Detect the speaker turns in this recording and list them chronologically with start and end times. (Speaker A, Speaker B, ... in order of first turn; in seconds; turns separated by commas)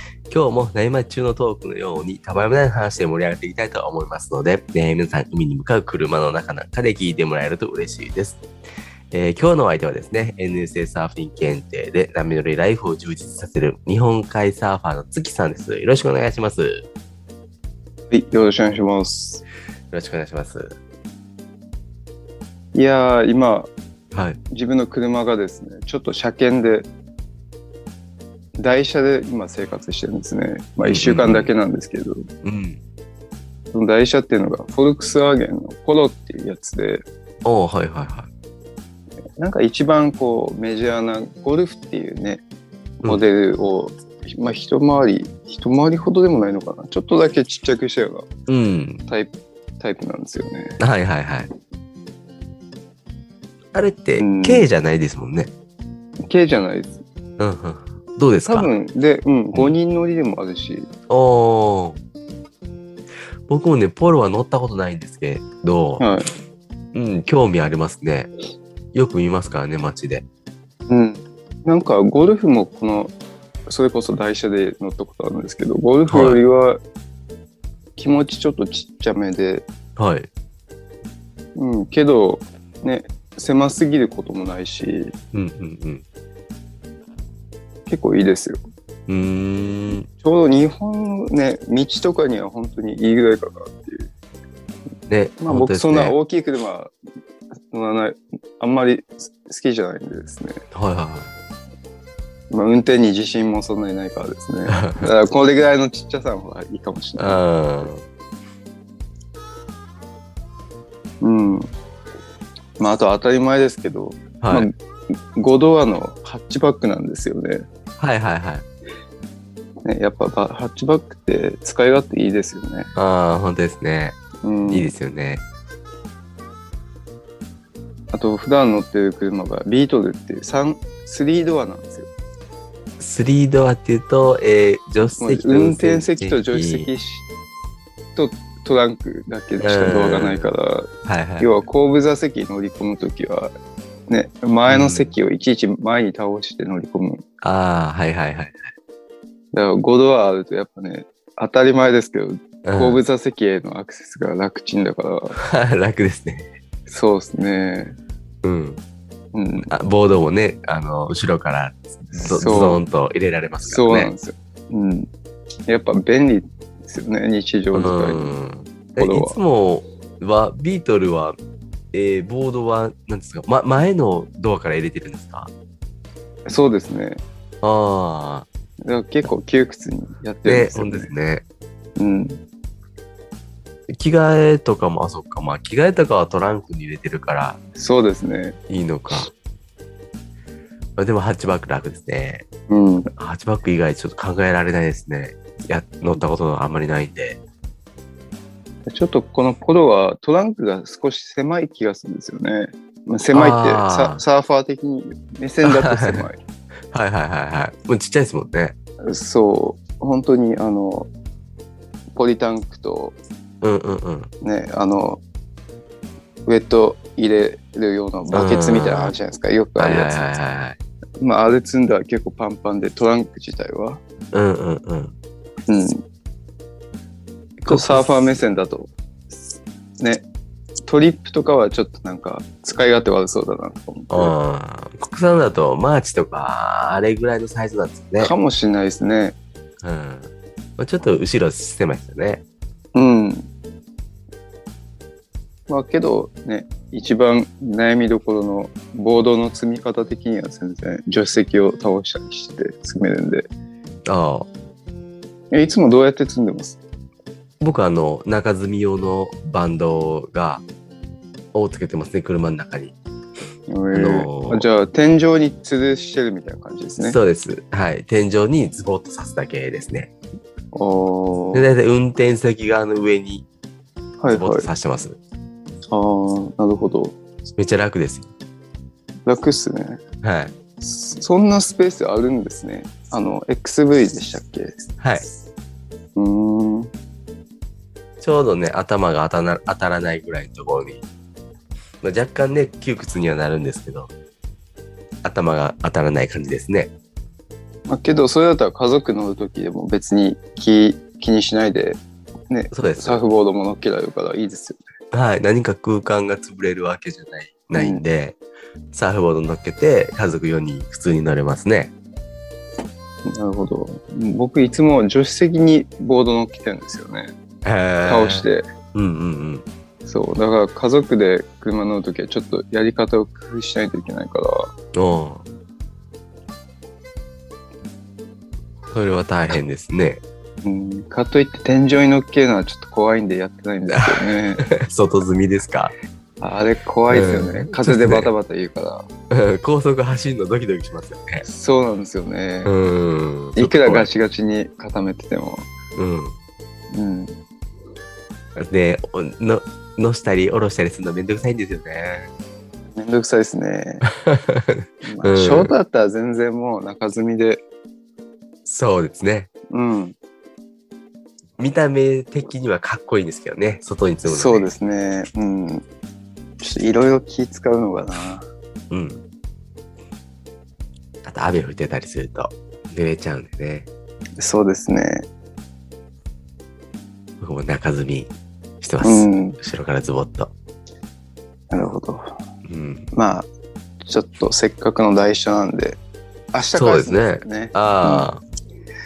Speaker A: 0.3-8.4, Speaker A: 9.1-16.9, Speaker B: 18.1-19.4, Speaker A: 19.9-20.8, Speaker B: 22.8-23.7, Speaker A: 24.1-24.4, Speaker B: 24.5-26.9, Speaker B: 28.6-32.2, Speaker A: 30.8-31.5, Speaker A: 32.4-32.8, Speaker B: 33.7-37.0, Speaker A: 37.4-38.3, Speaker B: 39.4-42.4, Speaker B: 43.0-48.3, Speaker A: 48.5-49.0, Speaker B: 49.1-50.8, Speaker A: 50.8-51.5, Speaker A: 53.7-55.5, Speaker B: 54.2-54.7, Speaker B: 56.2-57.0, Speaker A: 57.4-58.7, Speaker B: 58.5-60.9, Speaker A: 61.1-62.0, Speaker A: 63.5-66.1, Speaker B: 66.0-66.3, Speaker A: 66.9-68.3, Speaker A: 68.9-70.2, Speaker B: 70.9-73.1, Speaker B: 73.7-76.8, Speaker A: 76.1-76.4, Speaker B: 78.0-79.7, Speaker A: 80.0-80.3, Speaker B: 81.6-85.1, Speaker A: 85.3-86.0, Speaker B: 87.9-88.6, Speaker A: 89.1-90.1, Speaker B: 90.2-94.1, Speaker A: 95.1-96.2, Speaker B: 95.4-96.9, Speaker B: 97.7-100.6, Speaker A: 100.7-101.3, Speaker B: 102.5-107.4, Speaker A: 104.7-105.1, Speaker A: 107.2-108.0, Speaker B: 111.2-111.7, Speaker B: 112.8-114.7, Speaker A: 114.4-114.7, Speaker B: 115.3-117.7, Speaker A: 118.0-118.7, Speaker B: 119.8-122.9, Speaker A: 123.0-125.4, Speaker B: 124.4-124.9, Speaker B: 128.1-132.1, Speaker A: 133.0-136.9, Speaker B: 135.2-137.3, Speaker B: 138.2-143.5, Speaker A: 139.6-140.5, Speaker A: 141.1-141.5, Speaker B: 144.1-147.2, Speaker A: 144.7-145.2, Speaker A: 147.4-148.7, Speaker B: 149.5-155.4, Speaker A: 152.6-153.0, Speaker A: 155.4-156.5, Speaker B: 156.9-158.0, Speaker A: 158.4-158.8, Speaker B: 159.3-159.7, Speaker A: 159.7-164.1, Speaker B: 162.2-162.8, Speaker B: 163.6-165.1, Speaker B: 165.7-168.3, Speaker A: 167.7-171.4, Speaker B: 169.0-169.4, Speaker A: 171.9-175.5, Speaker B: 176.5-177.2, Speaker A: 177.6-178.5, Speaker B: 178.8-181.1, Speaker A: 180.5-181.4, Speaker B: 182.0-182.4, Speaker A: 183.9-187.6, Speaker B: 187.8-188.6, Speaker A: 188.7-189.3, Speaker A: 191.0-192.5, Speaker B: 192.7-193.1, Speaker A: 193.1-197.4, Speaker B: 198.9-206.4, Speaker A: 203.3-204.2, Speaker A: 205.7-206.3, Speaker A: 206.9-208.8, Speaker B: 209.0-211.1, Speaker B: 212.2-213.2, Speaker A: 213.6-214.3, Speaker B: 214.4-215.2, Speaker B: 216.5-220.2, Speaker A: 218.3-219.1, Speaker A: 219.8-220.8, Speaker B: 221.2-224.0, Speaker A: 224.3-225.1, Speaker B: 225.7-226.0, Speaker B: 227.6-228.9, Speaker A: 227.7-228.4, Speaker B: 230.0-230.3, Speaker B: 230.9-234.3, Speaker A: 234.1-238.3, Speaker B: 238.2-239.4, Speaker A: 239.8-242.4, Speaker B: 242.9-243.5, Speaker B: 245.7-253.5, Speaker A: 254.1-254.5, Speaker B: 255.5-256.8, Speaker A: 257.6-260.6, Speaker A: 261.5-262.9, Speaker B: 263.7-267.2, Speaker A: 263.9-264.6, Speaker A: 267.0-270.1, Speaker B: 270.7-271.6, Speaker A: 271.5-273.4, Speaker B: 274.2-274.7, Speaker A: 274.3-275.2, Speaker B: 275.9-277.2, Speaker A: 277.6-278.3, Speaker B: 279.3-280.0, Speaker A: 280.2-280.5, Speaker B: 280.8-284.9, Speaker A: 285.0-285.3, Speaker B: 286.2-286.9, Speaker A: 288.2-291.0, Speaker A: 292.0-294.1, Speaker A: 295.2-296.9, Speaker B: 297.9-304.8, Speaker A: 302.7-303.2, Speaker A: 305.1-308.4, Speaker B: 307.8-308.0, Speaker A: 308.9-311.9, Speaker B: 313.3-317.3, Speaker A: 317.6-319.7, Speaker B: 318.0-318.7, Speaker B: 320.1-324.7, Speaker A: 324.9-325.4, Speaker A: 328.9-330.2, Speaker B: 330.6-334.6, Speaker A: 334.7-335.9, Speaker B: 336.4-339.1, Speaker A: 337.1-338.3, Speaker A: 339.3-341.4, Speaker B: 341.5-342.7, Speaker A: 342.7-344.1, Speaker B: 343.6-345.7, Speaker A: 346.0-346.4, Speaker B: 346.9-347.4, Speaker A: 348.6-352.3, Speaker B: 353.0-354.0, Speaker A: 354.2-355.7, Speaker B: 355.0-357.6, Speaker A: 358.7-359.5, Speaker B: 359.7-360.1, Speaker A: 361.6-364.7, Speaker B: 364.3-365.9, Speaker B: 366.6-368.5, Speaker A: 368.9-369.2, Speaker A: 371.2-373.9, Speaker B: 374.4-375.3, Speaker A: 377.4-378.3, Speaker A: 378.8-380.5, Speaker B: 379.0-379.6, Speaker B: 381.7-382.4, Speaker A: 382.7-383.1, Speaker B: 383.1-383.5, Speaker B: 384.0-386.0, Speaker B: 386.5-388.3, Speaker A: 386.8-388.4